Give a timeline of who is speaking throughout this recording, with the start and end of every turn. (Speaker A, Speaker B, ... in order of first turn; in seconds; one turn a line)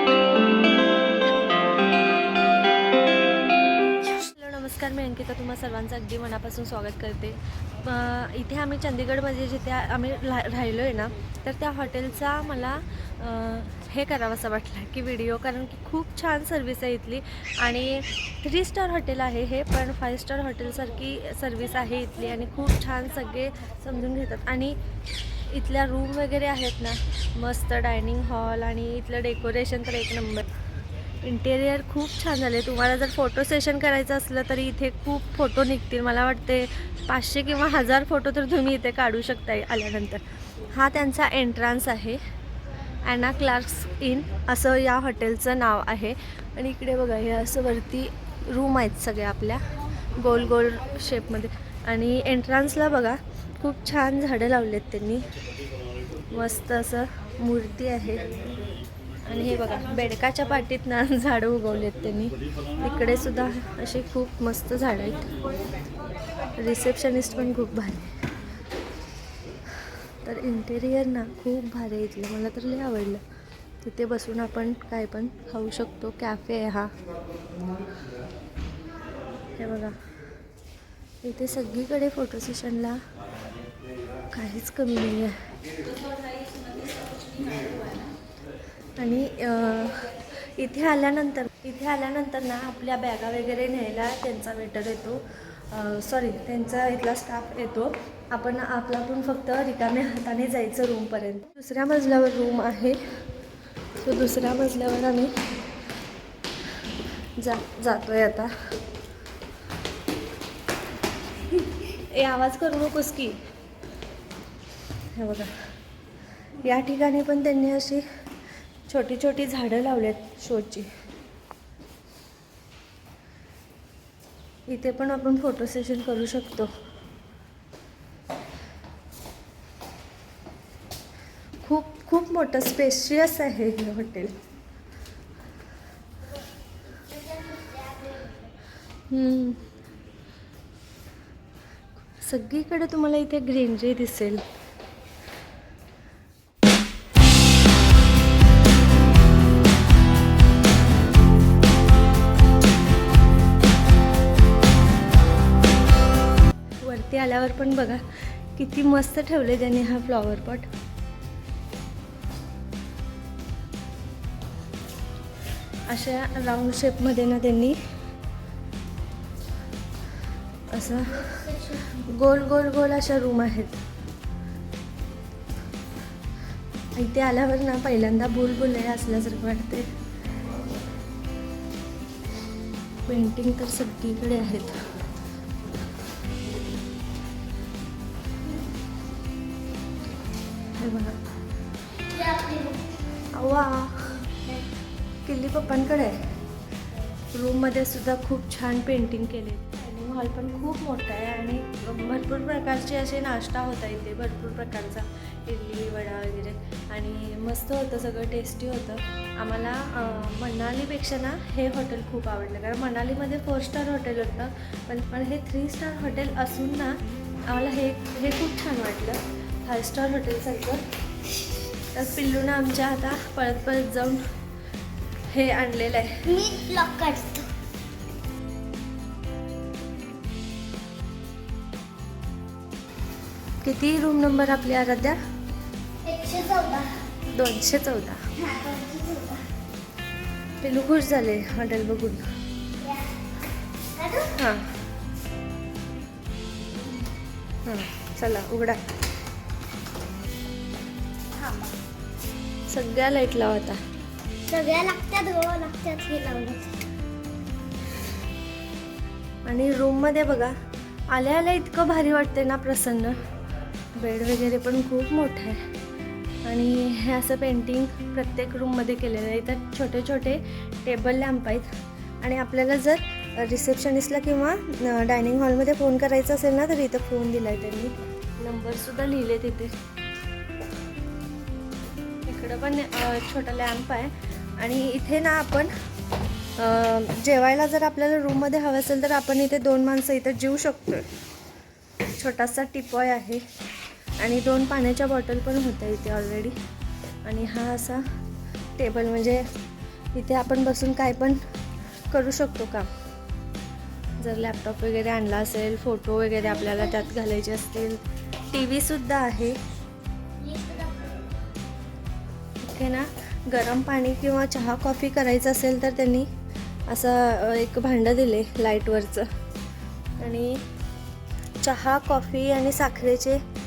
Speaker A: 4.0-24.8
Speaker A: 25.5-30.5
Speaker A: 31.2-42.2
Speaker A: 43.0-55.3
Speaker A: 56.3-58.3
Speaker A: 59.2-65.3
Speaker A: 66.6-68.2
Speaker A: 70.2-73.2
Speaker A: 73.8-76.9
Speaker A: 79.5-79.9
Speaker A: 81.2-83.0
Speaker A: 84.3-85.5
Speaker A: 87.4-88.0
Speaker A: 89.0-103.0
Speaker A: 104.0-105.4
Speaker A: 107.4-108.5
Speaker A: 111.5-113.4
Speaker A: 115.1-115.5
Speaker A: 116.6-118.0
Speaker A: 118.9-120.9
Speaker A: 124.7-126.7
Speaker A: 131.6-134.4
Speaker B: 136.9-138.5
Speaker A: 139.1-139.7
Speaker A: 142.2-144.4
Speaker A: 156.8-160.7
Speaker A: 165.9-167.8
Speaker A: 170.7-173.8
Speaker B: 171.2-171.9
Speaker A: 176.9-179.9
Speaker A: 183.1-184.8
Speaker A: 190.8-191.2
Speaker B: 192.1-192.8
Speaker A: 193.3-194.2
Speaker A: 195.2-196.3
Speaker A: 197.3-220.8
Speaker A: 221.9-224.2
Speaker A: 225.3-226.2
Speaker B: 226.2-227.5
Speaker A: 233.6-235.2
Speaker B: 236.0-237.0
Speaker A: 237.3-238.2
Speaker B: 238.4-239.5
Speaker A: 240.6-242.2
Speaker B: 242.8-243.3
Speaker B: 243.9-244.3
Speaker A: 244.3-244.7
Speaker A: 247.6-248.8
Speaker B: 251.3-251.7
Speaker A: 252.7-253.8
Speaker B: 254.5-256.8
Speaker A: 259.4-260.5
Speaker A: 261.1-263.2
Speaker A: 263.9-265.7
Speaker A: 266.4-279.7
Speaker A: 282.2-285.7
Speaker A: 286.6-291.1
Speaker A: 292.1-293.4
Speaker A: 294.2-296.6
Speaker A: 297.2-298.1
Speaker A: 298.8-299.5
Speaker A: 300.1-301.4
Speaker A: 302.1-302.9
Speaker A: 304.2-309.6
Speaker B: 310.4-311.2
Speaker A: 312.6-316.3
Speaker A: 316.9-319.3
Speaker A: 320.2-320.6
Speaker A: 321.6-323.4